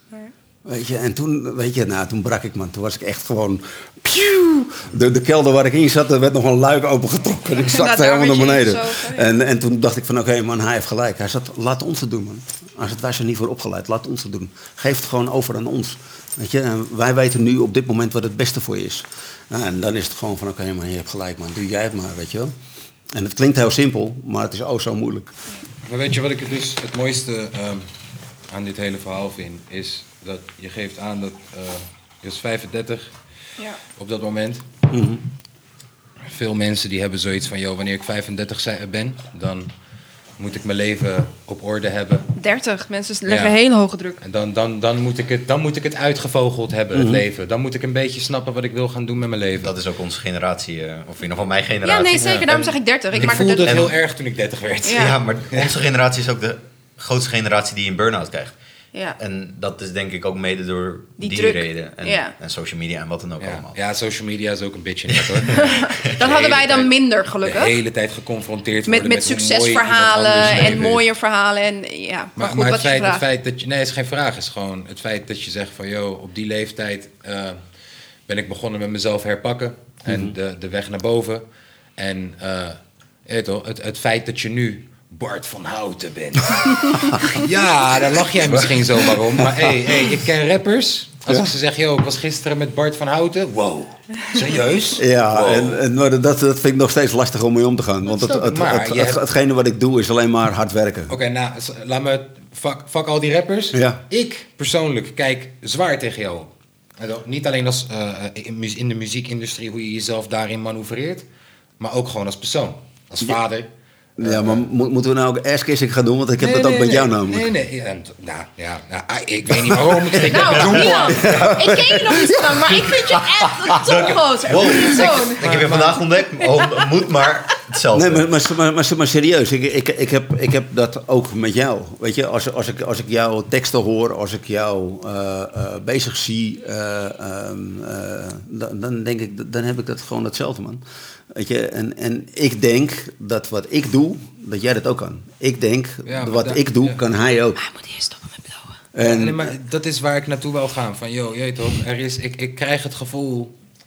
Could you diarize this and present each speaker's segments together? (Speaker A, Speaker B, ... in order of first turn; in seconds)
Speaker A: 0.7-22.5, 23.1-25.3, 34.9-35.2, 46.9-47.2, 70.4-70.9, 80.1-80.3, 86.9-87.4, 88.5-89.9, 91.3-91.5, 95.0-101.2, 103.7-104.0, 114.2-117.5, 119.5-123.2, 124.6-124.9, 127.9-147.6, 148.9-149.5
Speaker B: 7.6-9.3, 42.4-44.2, 51.8-53.9, 54.8-55.2, 61.2-62.3, 65.5-67.7, 68.9-73.2, 116.6-117.0, 120.3-125.5, 126.4-126.9, 147.6-148.7
Speaker C: 25.9-27.9, 28.5-33.1, 34.0-34.6, 36.2-39.7, 40.4-42.3, 43.3-43.5, 44.2-49.7, 52.2-52.5, 53.2-55.7, 63.4-66.9, 67.5-71.0, 72.4-77.6, 78.3-81.4, 82.0-95.8, 98.1-99.2, 101.1-111.2, 111.8-113.7, 114.2-114.7, 116.5-121.3, 125.2-126.0, 146.1-147.0, 149.0-153.5
Speaker D: 49.6-53.9, 54.8-58.5, 59.2-63.7, 65.2-65.5, 66.0-66.3, 120.4-121.9, 123.7-128.2